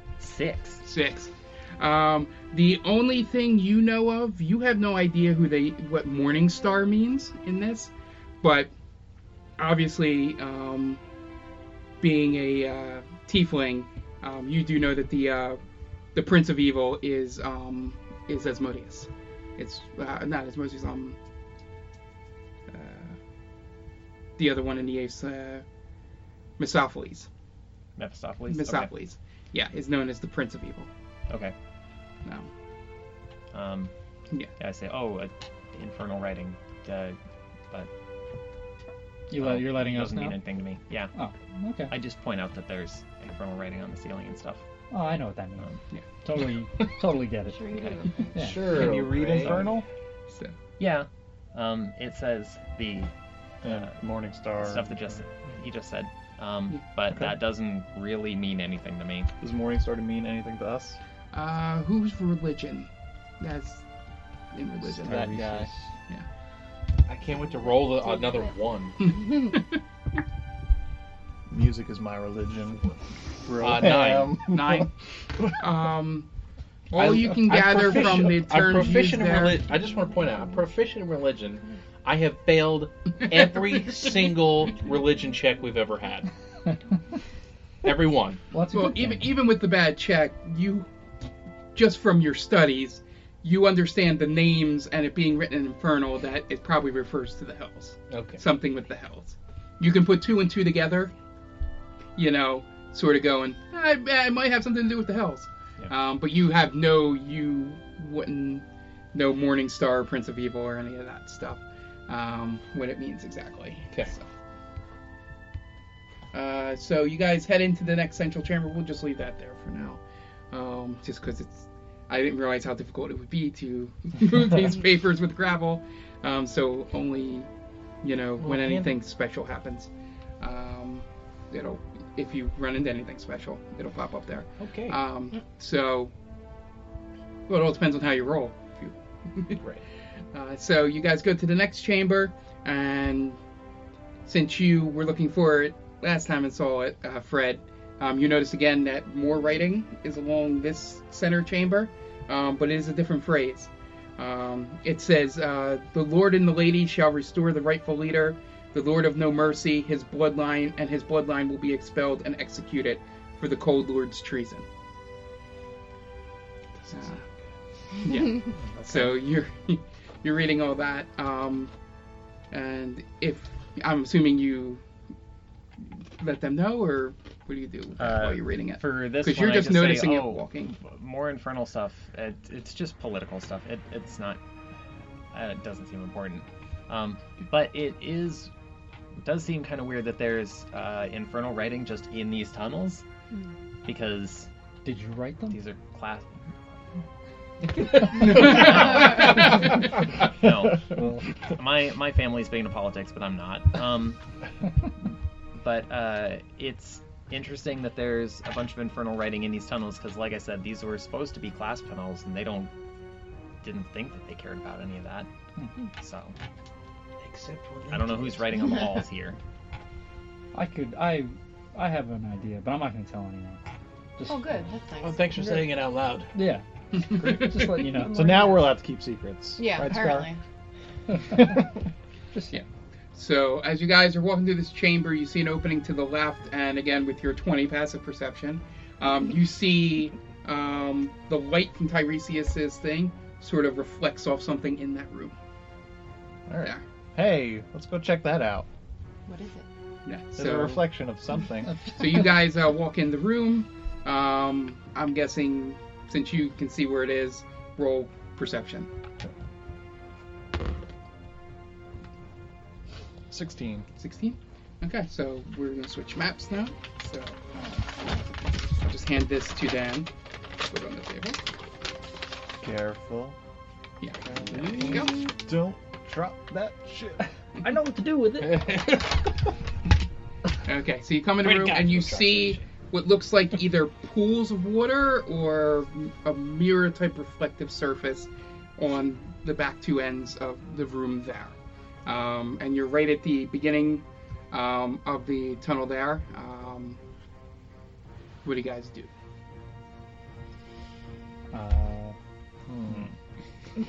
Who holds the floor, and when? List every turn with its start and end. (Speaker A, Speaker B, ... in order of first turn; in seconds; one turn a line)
Speaker A: 0.2-0.8
Speaker B: 0.8-7.9
Speaker B: 8.4-8.7
Speaker B: 9.6-11.0
Speaker B: 12.0-15.6
Speaker B: 16.1-21.2
Speaker B: 22.7-23.2
Speaker B: 24.4-25.6
Speaker B: 26.6-27.3
Speaker A: 28.0-28.9
Speaker B: 28.5-30.9
Speaker A: 31.3-31.5
Speaker A: 33.5-33.9
Speaker A: 34.6-37.2
Speaker C: 39.3-40.4
Speaker A: 39.3-41.1
Speaker C: 41.1-41.9
Speaker A: 41.9-44.6
Speaker C: 44.9-45.7
Speaker C: 46.2-47.7
Speaker D: 47.4-48.6
Speaker A: 47.7-48.0
Speaker C: 48.3-48.9
Speaker E: 48.4-49.6
Speaker F: 48.6-49.9
Speaker B: 50.3-50.5
Speaker A: 50.8-53.1
Speaker F: 53.6-55.1
Speaker A: 53.6-54.0
Speaker A: 54.6-59.3
Speaker F: 59.4-61.0
Speaker B: 61.3-62.9
Speaker B: 63.4-63.8
Speaker B: 64.5-65.4
Speaker F: 65.0-65.7
Speaker C: 65.0-65.9
Speaker E: 67.1-69.2
Speaker D: 67.6-68.5
Speaker B: 69.3-69.8
Speaker F: 71.5-75.5
Speaker E: 73.6-74.4
Speaker B: 74.4-74.9
Speaker B: 75.5-76.3
Speaker B: 76.9-79.6
Speaker E: 77.0-86.3
Speaker E: 87.8-88.4
Speaker C: 88.5-89.3
Speaker B: 88.7-90.9
Speaker B: 91.8-101.1
Speaker E: 98.1-98.4
Speaker B: 102.2-114.2
Speaker B: 116.3-127.5
Speaker B: 128.0-136.1
Speaker E: 128.4-128.9
Speaker E: 134.6-135.0
Speaker B: 137.5-139.6
Speaker B: 140.3-143.4
Speaker B: 144.2-164.7
Speaker B: 166.9-167.2
Speaker B: 168.0-171.7
Speaker B: 172.5-174.8
Speaker B: 176.2-180.8
Speaker A: 178.0-184.4
Speaker A: 185.3-188.5
Speaker A: 189.2-193.0
Speaker A: 193.8-194.5
Speaker C: 194.8-195.6
Speaker A: 195.5-196.8
Speaker A: 197.9-200.9
Speaker B: 198.3-198.7
Speaker C: 200.9-201.2
Speaker A: 201.6-204.2
Speaker A: 205.6-212.7
Speaker A: 213.6-215.3
Speaker A: 216.0-216.3
Speaker E: 217.2-218.7
Speaker A: 217.9-219.4
Speaker C: 220.5-223.6
Speaker C: 224.2-224.7
Speaker D: 224.2-225.7
Speaker E: 225.0-226.3
Speaker C: 226.3-228.4
Speaker D: 227.8-228.8
Speaker F: 228.0-230.3
Speaker D: 229.6-230.4
Speaker C: 231.1-231.6
Speaker C: 232.3-232.6
Speaker B: 232.5-245.4
Speaker F: 246.5-248.7
Speaker D: 249.3-249.7
Speaker B: 250.1-250.9
Speaker F: 250.4-251.9
Speaker B: 251.9-258.9
Speaker F: 263.3-263.9
Speaker B: 264.0-267.5
Speaker B: 268.8-270.1
Speaker B: 270.7-271.4
Speaker F: 272.6-273.4
Speaker B: 274.0-275.1
Speaker F: 274.5-277.3
Speaker C: 277.6-278.9
Speaker E: 278.5-279.0
Speaker B: 280.6-297.0
Speaker E: 281.4-282.7
Speaker B: 298.4-299.1
Speaker C: 301.5-302.2
Speaker F: 302.7-303.1